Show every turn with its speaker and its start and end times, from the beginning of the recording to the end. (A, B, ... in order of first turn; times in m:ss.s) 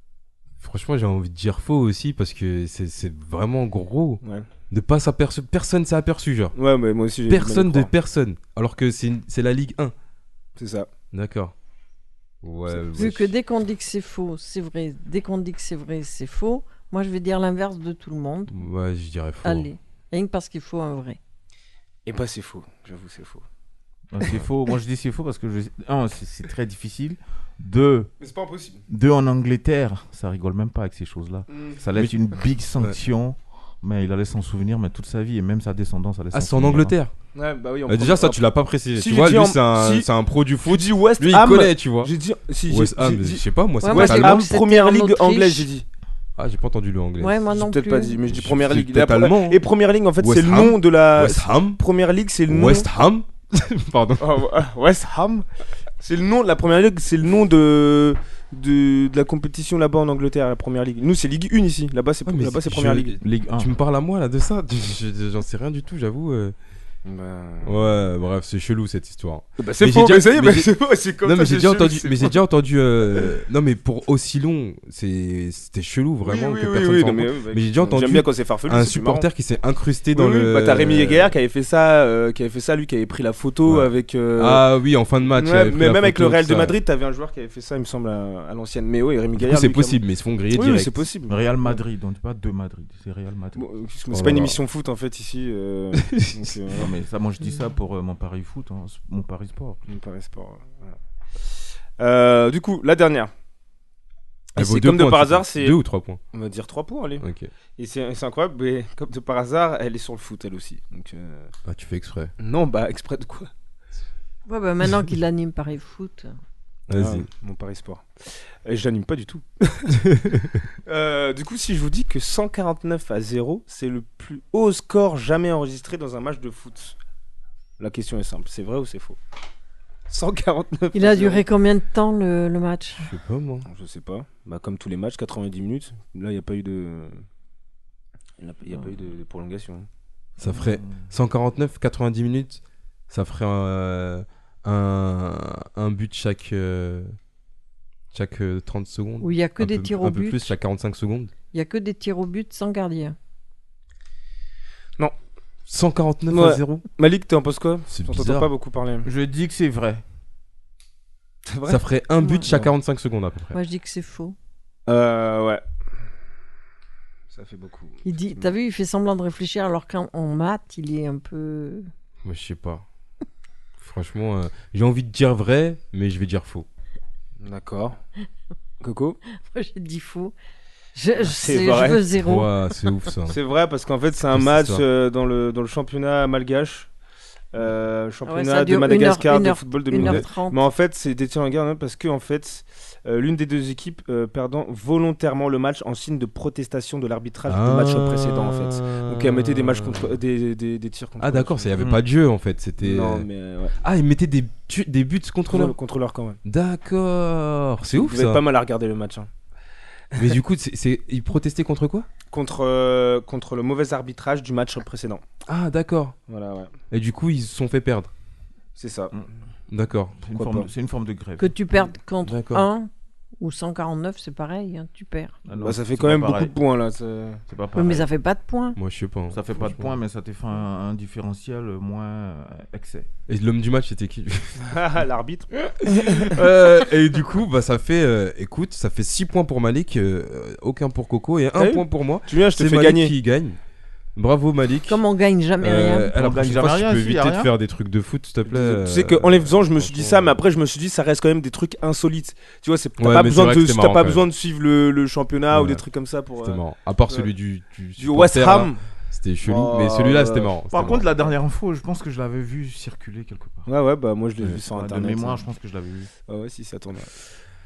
0:00.6-0:06.6 A
0:04.2-0:04.5 B
0:06.6-0:07.9 B
0:07.3-0:09.9 A
0:10.6-0:10.9 B
0:11.1-0:11.5 A
0:12.4-0:13.3 A
0:12.7-0:13.2 B
0:13.0-0:18.6 C
0:18.5-0:19.7 A
0:19.4-0:21.2 C
0:22.1-0:23.4 B
0:24.1-0:28.1 D
0:28.2-0:28.8 B
0:28.9-0:37.0 D
0:31.5-0:31.8 B
0:36.3-0:37.1 A
0:37.4-0:38.4 B
0:37.9-0:42.1 A
0:39.0-0:40.1 B
0:40.6-0:45.8 B
0:42.7-0:44.5 A
0:43.8-0:45.7 C
0:46.4-0:47.5 A
0:47.2-0:48.2 C
0:47.5-0:52.9 B
0:48.3-0:49.6 A
0:50.2-0:51.8 A
0:52.5-0:54.4 A
0:54.2-0:55.5 B
0:56.0-1:03.2 B
1:02.3-1:06.6 A
1:03.2-1:03.7 D
1:07.0-1:07.9 B
1:07.6-1:21.3 A
1:09.6-1:12.4 B
1:16.2-1:19.3 B
1:20.1-1:24.6 B
1:23.7-1:26.8 A
1:25.3-1:30.0 B
1:29.4-1:31.1 A
1:30.5-1:31.8 B
1:31.3-1:33.6 D
1:33.6-1:36.9 B
1:34.1-1:34.6 A
1:36.0-1:36.5 A
1:36.8-1:39.8 D
1:39.9-1:41.0 B
1:42.0-1:43.3 B
1:44.5-1:45.8 B
1:44.6-1:46.2 A
1:46.3-1:47.2 B
1:47.2-1:47.5 A
1:47.8-1:51.5 B
1:51.7-1:52.3 A
1:52.4-1:53.5 B
1:54.5-1:56.4 C
1:56.9-1:57.3 A
1:56.9-2:00.0 B
2:00.0-2:00.6 A
2:00.9-2:07.0 B
2:07.8-2:09.2 B
2:10.1-2:11.4 B
2:10.9-2:13.1 C
2:13.0-2:13.7 A
2:13.7-2:17.2 B
2:18.4-2:19.9 B
2:20.4-2:27.2 A
2:20.4-2:21.0 D
2:28.1-2:31.3 A
2:29.2-2:30.6 C
2:31.5-2:33.2 C
2:35.7-2:36.8 A
2:36.3-2:39.1 B
2:37.9-2:38.5 A
2:39.0-2:40.0 D
2:41.5-2:41.8 B
2:41.7-2:43.6 A
2:42.2-2:42.5 C
2:43.5-2:44.4 C
2:44.9-2:45.6 B
2:47.3-2:48.5 B
2:48.1-2:51.9 C
2:52.2-2:52.9 A
2:53.8-2:56.7 A
2:57.4-2:58.0 B
2:58.8-2:59.2 B
2:59.3-3:00.3 C
3:01.0-3:02.5 C
3:01.2-3:02.0 B
3:02.1-3:03.4 A
3:03.3-3:06.9 B
3:04.3-3:04.8 A
3:07.5-3:21.9 B
3:08.3-3:10.6 C
3:10.0-3:10.2 A
3:17.5-3:20.1 A
3:21.2-3:23.3 A
3:21.8-3:22.0 D
3:22.8-3:23.8 B
3:23.8-3:25.8 A
3:25.5-3:26.4 B
3:26.4-3:28.4 A
3:27.9-3:29.3 B
3:30.2-3:32.1 A
3:32.3-3:35.2 B
3:35.5-3:36.2 A
3:36.3-3:36.7 B
3:36.9-3:38.1 A
3:38.8-3:39.2 B
3:39.7-3:40.2 A
3:40.2-3:41.5 D
3:40.3-3:40.7 B
3:41.4-3:45.4 C
3:42.3-3:42.6 A
3:45.5-3:46.6 D
3:45.6-3:47.4 B
3:47.5-3:48.1 D
3:47.8-3:48.8 C
3:48.8-3:50.0 A
3:49.3-3:53.1 D
3:53.3-3:54.7 A
3:54.6-3:56.4 B
3:55.8-4:03.6 A
4:01.6-4:03.1 B
4:04.2-4:05.0 A
4:04.9-4:06.2 C
4:05.6-4:10.4 A
4:06.2-4:07.5 D
4:08.5-4:17.3 B
4:13.0-4:14.3 A
4:15.5-4:15.8 A
4:16.4-4:21.0 A
4:18.0-4:18.8 B
4:19.4-4:20.6 B
4:20.7-4:23.7 D
4:23.7-4:25.4 B
4:24.7-4:26.1 D
4:26.3-4:27.1 B